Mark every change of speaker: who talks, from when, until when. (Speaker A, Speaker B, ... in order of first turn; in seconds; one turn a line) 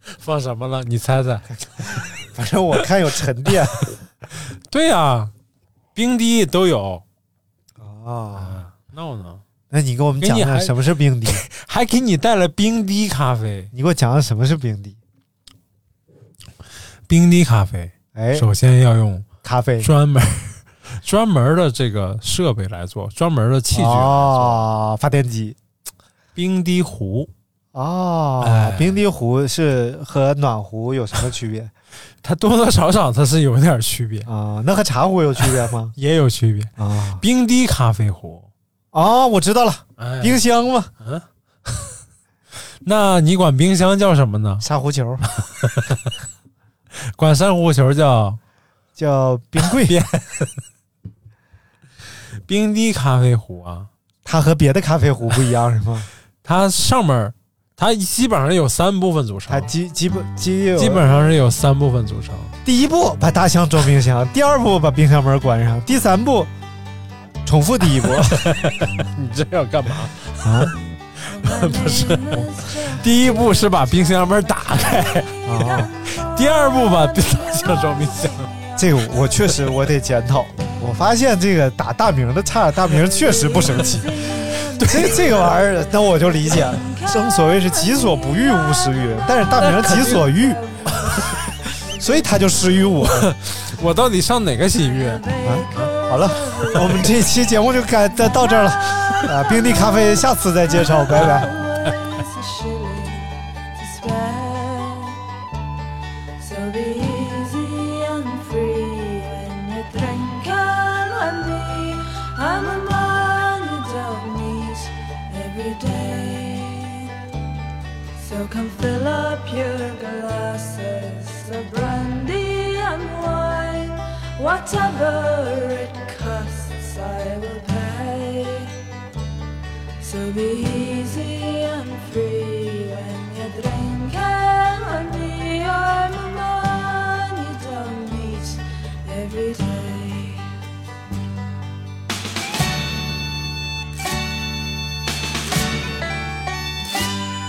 Speaker A: 0.2-2.0
Speaker B: 1.8-3.8
Speaker A: 4.7-5.3
Speaker A: 5.9-7.0
Speaker B: 7.8-8.6
Speaker A: 8.4-9.4
Speaker B: 9.7-11.4
Speaker A: 10.2-10.8
Speaker A: 11.3-13.7
Speaker B: 13.7-15.0
Speaker A: 17.1-19.3
Speaker B: 18.1-18.5
Speaker B: 19.4-19.9
Speaker A: 19.8-24.6
Speaker B: 23.7-25.6
Speaker A: 26.3-27.3
Speaker B: 27.7-31.7
Speaker A: 28.4-29.0
Speaker A: 32.2-34.3
Speaker B: 34.2-35.9
Speaker A: 35.5-38.5
Speaker B: 36.8-37.2
Speaker B: 38.9-40.9
Speaker A: 40.0-40.4
Speaker A: 41.0-41.9
Speaker A: 42.8-44.6
Speaker B: 44.6-45.3
Speaker A: 45.5-46.1
Speaker A: 47.0-48.4
Speaker B: 49.0-50.0
Speaker A: 49.8-50.5
Speaker A: 52.5-53.9
Speaker B: 54.2-56.1
Speaker A: 56.4-59.7
Speaker B: 59.5-61.3
Speaker A: 60.8-62.5
Speaker B: 62.6-66.5
Speaker B: 67.4-68.5
Speaker A: 68.3-70.7
Speaker B: 70.4-70.7
Speaker A: 71.3-78.5
Speaker C: 71.3-73.6
Speaker B: 75.5-75.9
Speaker B: 78.8-84.2
Speaker C: 82.9-92.9
Speaker A: 84.8-85.2
Speaker B: 84.8-90.6
Speaker A: 89.6-90.3
Speaker B: 91.9-93.3
Speaker A: 93.0-95.9
Speaker C: 94.9-97.1
Speaker B: 95.4-101.5
Speaker C: 98.2-98.7
Speaker C: 99.2-105.2
Speaker C: 106.4-117.1
Speaker C: 118.2-128.8
Speaker C: 130.0-140.5